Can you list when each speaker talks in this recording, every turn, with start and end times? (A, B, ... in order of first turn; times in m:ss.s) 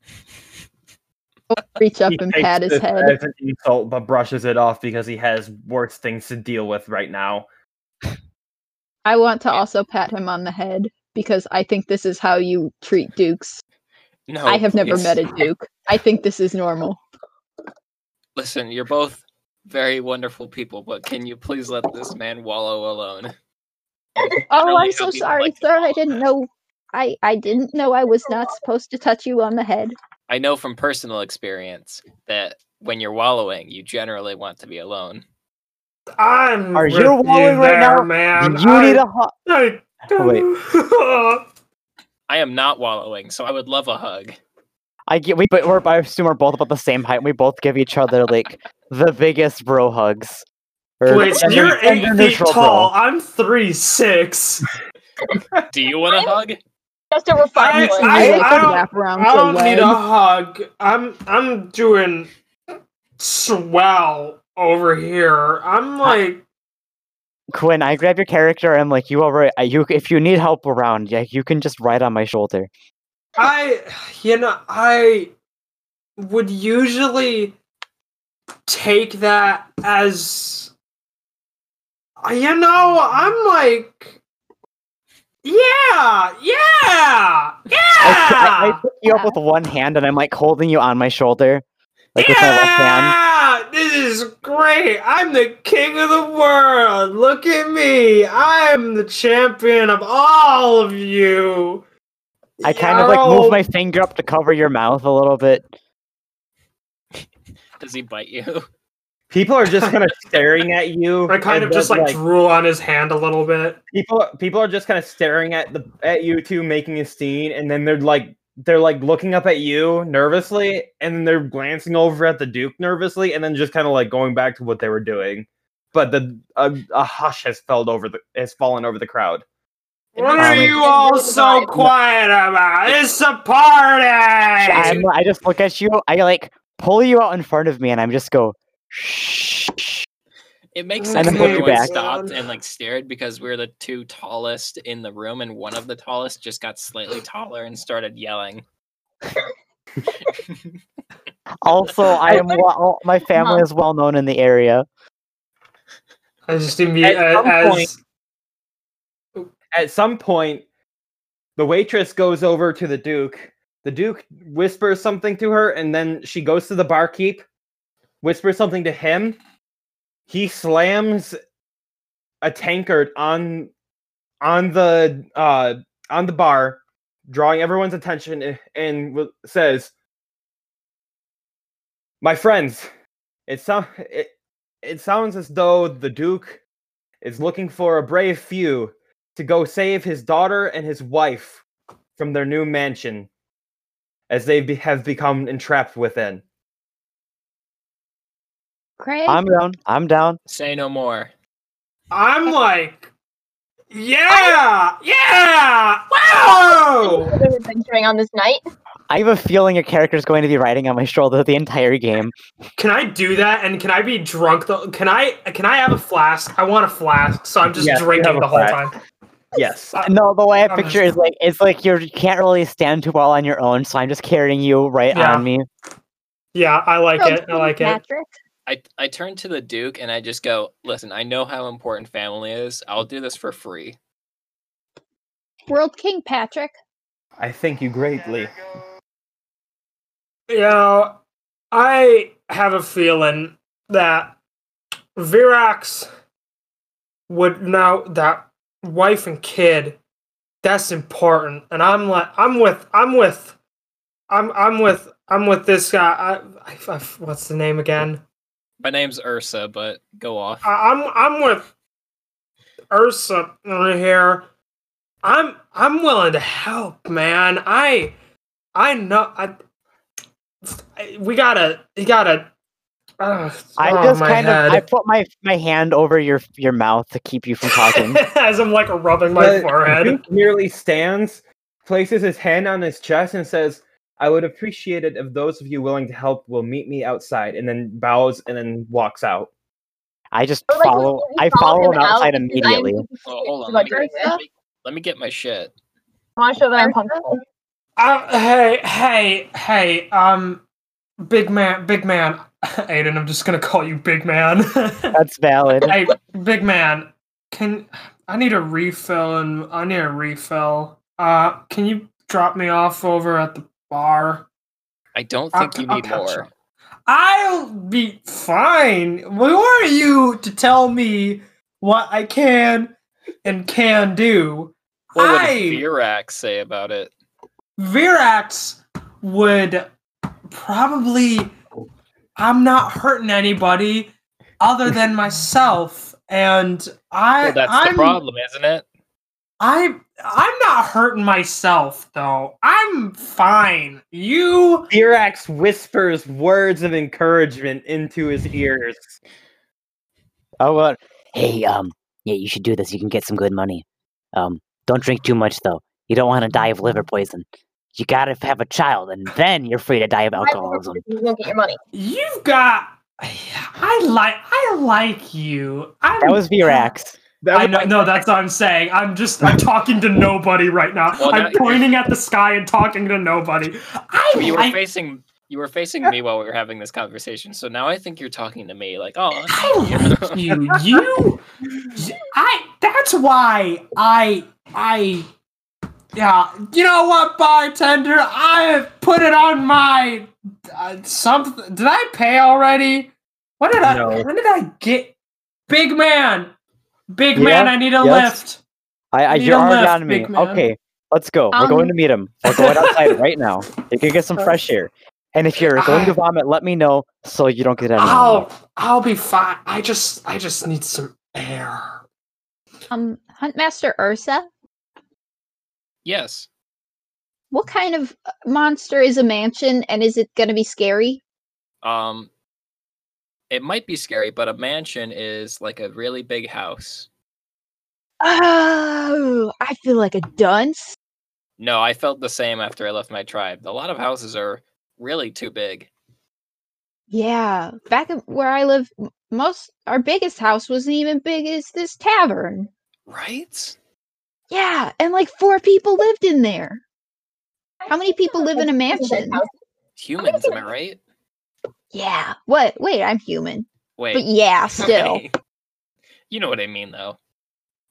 0:01.5-0:03.2 A
0:02.1-0:07.4 B
0:09.0-0:13.6 A
0:14.3-0:15.2 C
0:14.4-0:17.0 A
0:18.4-0:23.3 C
0:24.3-0:26.2 C
0:24.5-0:29.9 A
0:30.3-0:35.2 C
0:36.2-0:41.5 D
0:36.7-0:39.3 E
0:40.1-0:40.4 E
0:42.3-0:44.4 C
0:45.1-0:50.4 E
0:51.0-0:52.9 E
0:51.1-0:54.6 D
0:51.1-0:51.5 F
0:55.7-0:56.6 C
0:56.0-0:56.3 F
0:57.1-0:58.5 F
0:57.5-1:02.3 D
0:57.8-1:00.0 A
1:03.2-1:06.4 D
1:07.5-1:12.7 E
1:13.4-1:15.3 D
1:16.2-1:17.6 D
1:18.7-1:20.7 D
1:22.2-1:24.2 D
1:25.4-1:28.8 D
1:28.0-1:31.6 E
1:29.0-1:29.4 A
1:32.1-1:33.2 E
1:32.2-1:41.8 D
1:42.6-1:43.7 D
1:42.6-1:45.7 E
1:47.8-1:48.6 C
1:49.3-1:52.2 B
1:51.3-1:53.8 D
1:53.9-2:09.4 B
2:10.1-2:15.0 D
2:10.4-2:10.8 E
2:10.4-2:11.8 F
2:14.6-2:20.0 E
2:14.7-2:15.0 C
2:20.7-2:28.6 C
2:21.0-2:22.4 D
2:21.1-2:21.9 E
2:31.6-2:34.8 E
2:32.3-2:32.6 F
2:33.3-2:33.6 F
2:36.5-2:38.0 D
2:37.0-2:37.9 B
2:39.7-2:40.6 B
2:41.6-2:47.4 B
2:48.2-2:49.4 B
2:50.3-2:51.4 B
2:52.4-2:53.7 B
2:54.4-2:59.9 B
3:02.2-3:02.9 B
3:03.5-3:04.3 B
3:04.8-3:06.6 B
3:07.2-3:11.6 B
3:12.2-3:13.3 B
3:14.3-3:16.4 B
3:19.0-3:19.4 A
3:19.3-3:20.4 E
3:20.5-3:21.3 C
3:22.1-3:23.1 D
3:23.9-3:27.4 D
3:27.0-3:28.6 F
3:29.1-3:32.3 E
3:32.8-3:39.0 D
3:37.7-3:38.8 B
3:39.5-3:40.0 B
3:40.0-3:45.6 E
3:40.7-3:41.0 D
3:45.1-3:45.4 D
3:46.5-3:48.0 D
3:47.2-3:48.4 A
3:48.6-3:54.0 C
3:55.7-3:56.8 A
3:57.4-3:58.5 B
4:00.5-4:01.2 D
4:01.7-4:04.4 D
4:05.2-4:06.1 D
4:07.3-4:10.0 D
4:10.6-4:13.5 D
4:14.3-4:18.2 D
4:18.8-4:20.6 C
4:20.6-4:21.7 D
4:22.9-4:24.4 D
4:25.2-4:28.1 D
4:28.7-4:29.6 D
4:30.6-4:32.5 D
4:33.2-4:34.8 D
4:33.8-4:38.2 E
4:37.7-4:40.2 D
4:39.3-4:49.5 B
4:50.3-4:53.0 E
4:50.7-4:54.4 F
4:53.2-4:55.7 C
4:53.9-4:54.4 A
4:56.4-4:57.4 F
4:58.0-5:00.6 D
5:01.2-5:05.2 D
5:05.1-5:05.9 E
5:05.8-5:14.5 D
5:15.1-5:16.5 C
5:15.5-5:16.5 D
5:17.1-5:22.9 D
5:23.4-5:25.8 D
5:25.1-5:27.1 C
5:27.8-5:29.9 D
5:30.5-5:31.5 D
5:32.4-5:38.2 D
5:37.4-5:38.8 C
5:39.6-5:44.9 D
5:44.9-5:49.1 B
5:50.6-6:01.0 E
6:00.4-6:01.8 F
6:01.9-6:06.8 D
6:06.2-6:07.2 E
6:07.5-6:14.8 D
6:07.5-6:07.9 B
6:07.7-6:08.1 C
6:11.2-6:11.9 C
6:14.3-6:20.6 C
6:19.4-6:21.4 D
6:21.9-6:25.3 D
6:26.1-6:35.1 D
6:33.8-6:34.3 B
6:35.7-6:36.5 D
6:37.1-6:38.6 D
6:37.3-6:38.4 E
6:39.1-6:48.5 E
6:39.3-6:40.7 D
6:41.5-6:41.9 A
6:42.4-6:43.2 D
6:45.7-6:46.2 D
6:47.9-6:52.0 D
6:52.9-6:54.4 A
6:56.0-6:56.5 C
6:57.5-7:01.2 A
7:01.8-7:02.3 C
7:03.5-7:07.1 C
7:08.2-7:11.0 A
7:11.6-7:15.9 C
7:17.1-7:22.7 A
7:23.1-7:23.8 C
7:24.5-7:26.8 A
7:27.8-7:29.5 F
7:27.9-7:29.4 A
7:30.0-7:31.0 C
7:30.2-7:30.7 F
7:31.9-7:35.2 A
7:34.0-7:34.3 C
7:34.8-7:35.3 C
7:36.3-7:37.2 C